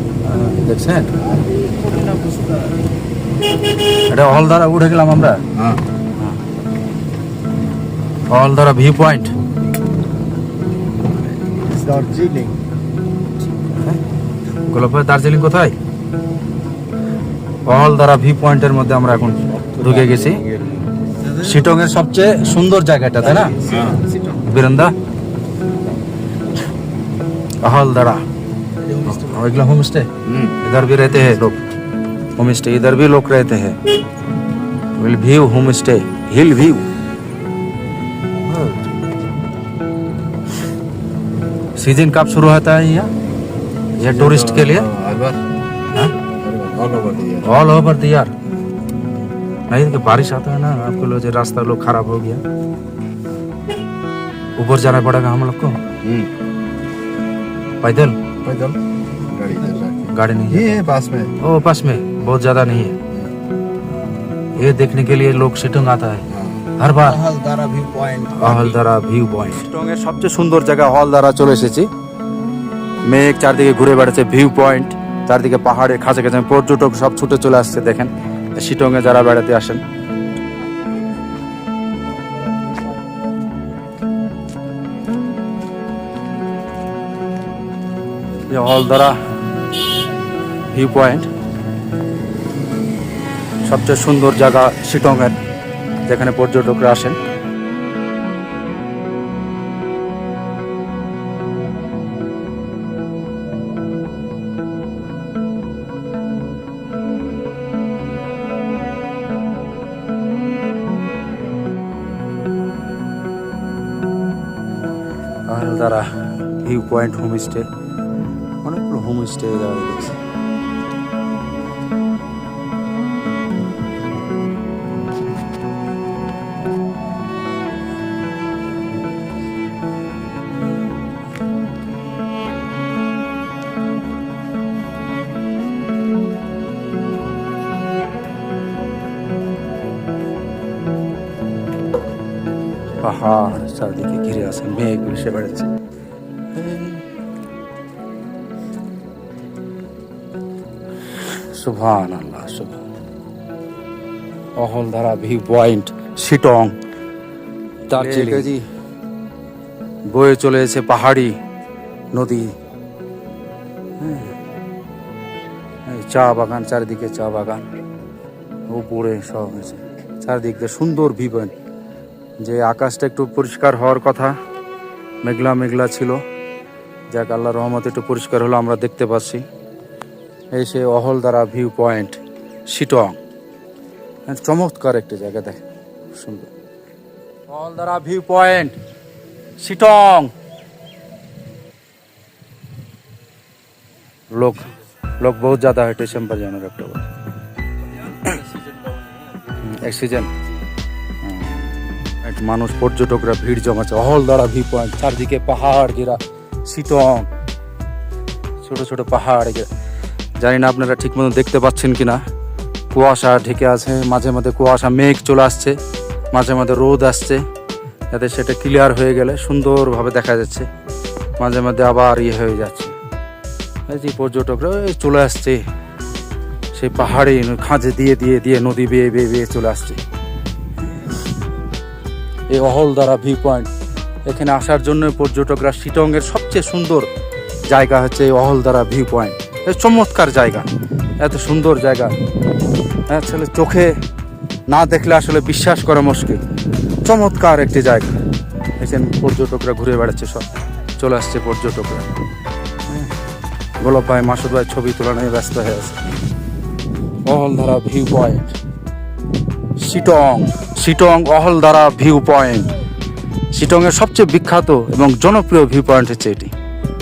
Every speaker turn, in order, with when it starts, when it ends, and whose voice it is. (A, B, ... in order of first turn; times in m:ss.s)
0:00.2-0:01.2 A
0:01.2-0:02.8 B
0:04.1-0:05.4 A
0:05.5-0:05.8 B
0:08.3-0:09.3 A
0:11.3-0:12.6 B
0:13.6-0:14.0 A
0:14.6-0:15.8 A
0:17.6-0:20.4 A
0:19.5-0:21.5 B
0:21.4-0:23.6 A
0:23.3-0:24.4 B
0:24.3-0:24.9 A
0:27.6-0:28.2 A
0:28.8-0:29.4 B
0:29.0-0:31.6 A
0:30.2-0:30.6 B
0:32.4-0:33.8 A
0:34.9-0:36.8 A
0:38.5-0:38.8 B
0:41.8-0:43.1 A
0:44.0-0:44.9 A
0:44.0-0:45.4 B
0:46.2-0:47.5 B
0:47.4-0:48.3 A
0:49.7-0:52.4 A
0:54.6-0:55.9 A
0:56.0-0:56.3 B
0:57.8-0:58.2 A
0:58.4-1:01.3 B
1:00.1-1:00.8 A
1:01.4-1:03.0 A
1:04.6-1:07.2 A
1:06.3-1:08.8 B
1:08.4-1:11.9 A
1:13.0-1:19.8 A
1:28.5-1:29.2 A
1:30.7-1:31.3 A
1:33.6-1:35.4 A
1:36.0-1:37.2 A
1:55.5-1:57.7 A
1:58.6-2:00.2 A
2:23.0-2:25.7 A
2:26.5-2:27.0 A
2:31.2-2:32.8 A
2:34.6-2:36.8 A
2:37.9-2:38.6 A
2:40.1-2:41.4 A
2:42.1-2:42.5 A
2:44.0-2:44.4 A
2:45.8-2:47.6 A
2:48.7-2:51.5 A
2:52.4-2:54.4 A
2:55.2-2:56.2 A
2:57.1-2:59.4 A
3:00.5-3:03.2 A
3:04.3-3:06.5 A
3:07.5-3:08.8 A
3:09.6-3:10.3 A
3:14.3-3:17.1 A
3:18.1-3:18.4 A
3:19.5-3:20.3 A
3:21.2-3:27.3 A
3:28.6-3:29.7 A
3:30.4-3:32.2 A
3:32.9-3:35.8 A
3:36.3-3:37.4 A
3:38.1-3:40.7 A
3:41.4-3:42.9 A
3:43.9-3:45.6 A
3:46.7-3:50.0 A
3:52.5-3:53.7 A
3:54.2-3:57.1 A
3:57.7-4:00.7 A
4:01.2-4:02.1 A
4:03.1-4:04.0 A
4:04.7-4:06.4 A
4:07.0-4:08.1 A
4:08.8-4:12.1 A
4:13.8-4:16.0 A
4:17.2-4:18.6 A
4:19.8-4:22.7 A
4:23.5-4:26.5 A